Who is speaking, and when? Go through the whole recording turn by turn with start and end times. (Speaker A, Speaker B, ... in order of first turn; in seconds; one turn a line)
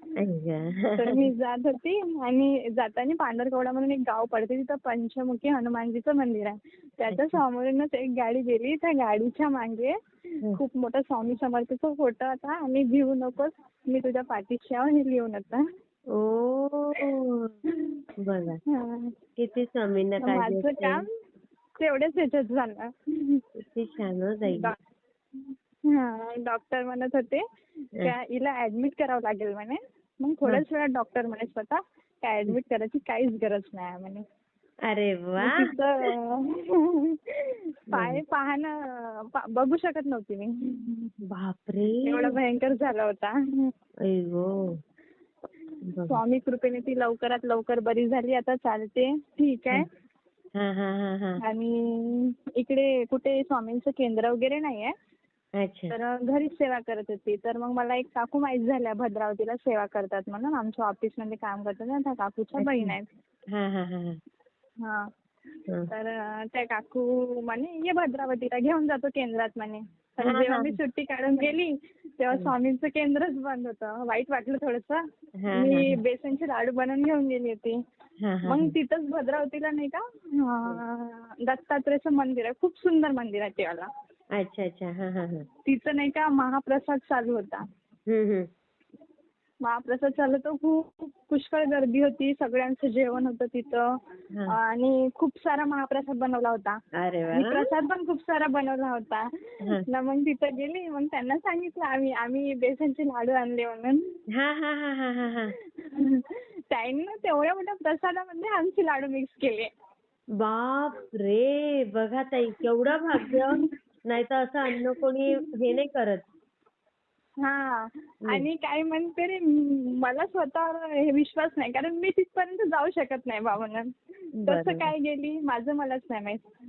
Speaker A: 0.2-1.3
Speaker B: 1.0-9.9
Speaker A: 7.1-7.4
Speaker B: 10.5-15.6
Speaker A: 16.1-17.5
Speaker A: 18.2-18.6
Speaker B: 18.7-19.1
Speaker A: 19.4-21.0
Speaker B: 20.2-21.1
Speaker B: 21.8-23.4
Speaker A: 23.6-24.7
Speaker B: 24.5-24.8
Speaker B: 25.9-27.4
Speaker B: 28.0-34.2
Speaker A: 34.9-35.5
Speaker B: 35.4-41.1
Speaker A: 37.9-38.2
Speaker A: 41.3-42.4
Speaker B: 42.1-43.7
Speaker A: 44.1-44.8
Speaker A: 45.9-46.2
Speaker B: 46.1-49.8
Speaker A: 50.6-51.4
Speaker B: 51.4-54.9
Speaker A: 55.6-55.9
Speaker B: 55.9-63.1
Speaker A: 62.6-62.9
Speaker A: 63.5-64.2
Speaker B: 65.9-75.0
Speaker A: 70.2-70.8
Speaker A: 75.4-76.0
Speaker B: 75.5-77.7
Speaker A: 78.2-78.7
Speaker B: 78.5-83.9
Speaker A: 84.4-85.5
Speaker B: 85.7-87.6
Speaker A: 88.1-88.5
Speaker B: 89.6-93.8
Speaker B: 94.5-96.8
Speaker A: 97.0-97.7
Speaker B: 97.3-99.2
Speaker B: 99.9-104.0
Speaker A: 104.3-105.5
Speaker B: 105.8-109.7
Speaker A: 110.4-116.2
Speaker B: 113.2-113.6
Speaker B: 117.4-123.9
Speaker B: 124.4-126.4
Speaker A: 124.5-124.9